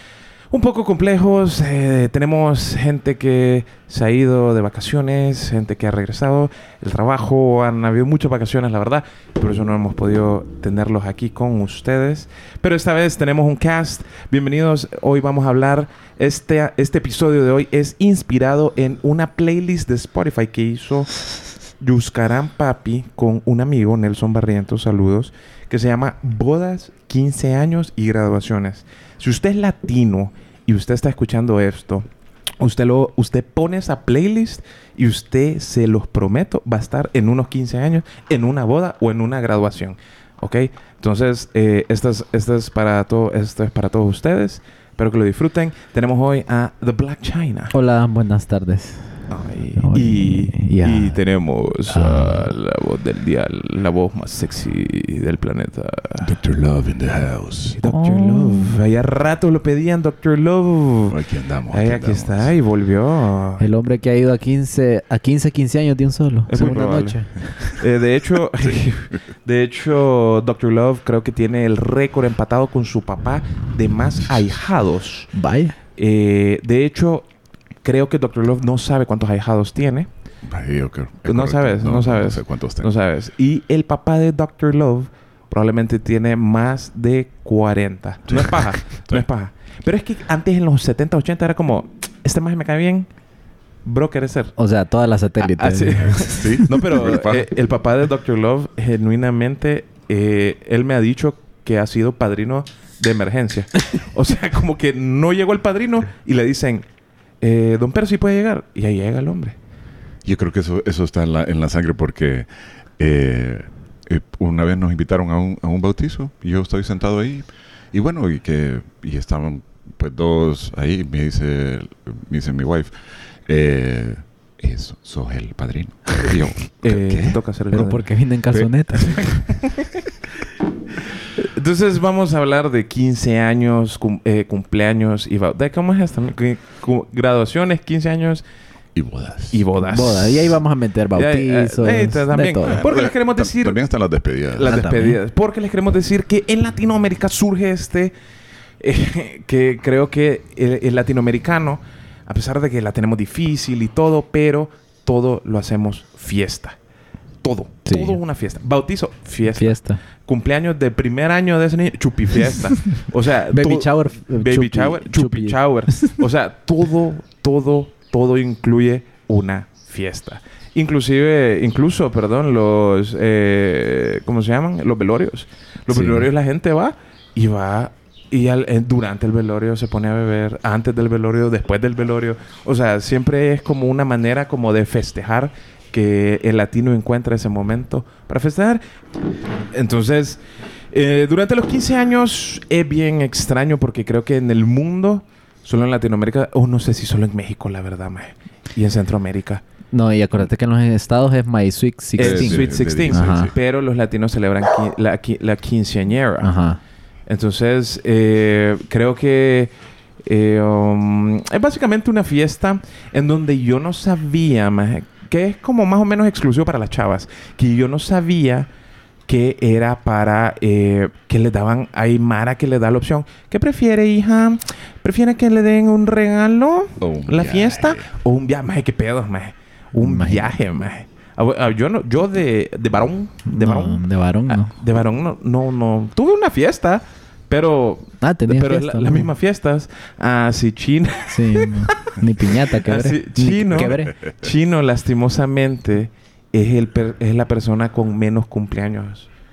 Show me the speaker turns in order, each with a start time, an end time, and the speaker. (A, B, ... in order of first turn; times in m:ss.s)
0:00.5-0:21.2 A
0:21.8-0:32.1 A
0:32.6-0:47.7 A
0:47.7-0:49.3 B
0:49.3-0:56.3 A
0:49.8-0:51.2 B
0:51.9-0:52.4 B
0:56.2-0:57.8 C
0:57.8-1:01.2 A
0:57.8-0:58.8 B
1:01.1-1:02.5 C
1:01.7-1:03.7 A
1:03.6-1:07.8 B
1:06.5-1:15.3 A
1:15.3-1:15.8 B
1:16.0-1:17.3 A
1:17.8-1:20.1 A
1:20.5-1:22.9 C
1:21.3-1:33.1 A
1:28.3-1:29.2 C
1:33.8-1:34.5 A
1:34.6-1:36.5 B
1:35.4-1:46.9 A
1:36.2-1:37.5 C
1:47.4-1:49.6 A
1:50.2-2:02.9 C
2:03.5-2:07.4 C
2:06.8-2:08.1 A
2:07.7-2:09.2 B
2:08.5-2:09.4 C
2:09.2-2:09.9 A
2:11.4-2:18.4 A
2:19.0-2:19.6 C
2:19.5-2:20.6 A
2:19.8-2:22.8 B
2:21.2-2:23.8 A
2:22.6-2:24.7 C
2:24.5-2:28.1 A
2:24.6-2:25.2 B
2:28.8-2:36.8 A
2:37.4-3:08.8 A
2:37.9-2:38.2 B
2:39.6-2:40.0 B
2:43.5-2:46.2 B
2:55.9-2:56.3 B
3:09.7-3:19.6 A
3:19.9-3:23.5 B
3:22.2-3:26.5 A
3:22.2-3:23.5 C
3:26.4-3:26.8 B
3:27.3-3:29.7 A
3:30.2-3:38.7 A
3:39.3-4:02.2 A
3:47.0-3:48.1 C
3:50.0-3:50.6 B
3:53.5-3:54.8 B
3:58.2-3:59.3 B
4:01.3-4:04.1 B
4:02.7-4:09.3 A
4:03.8-4:04.3 C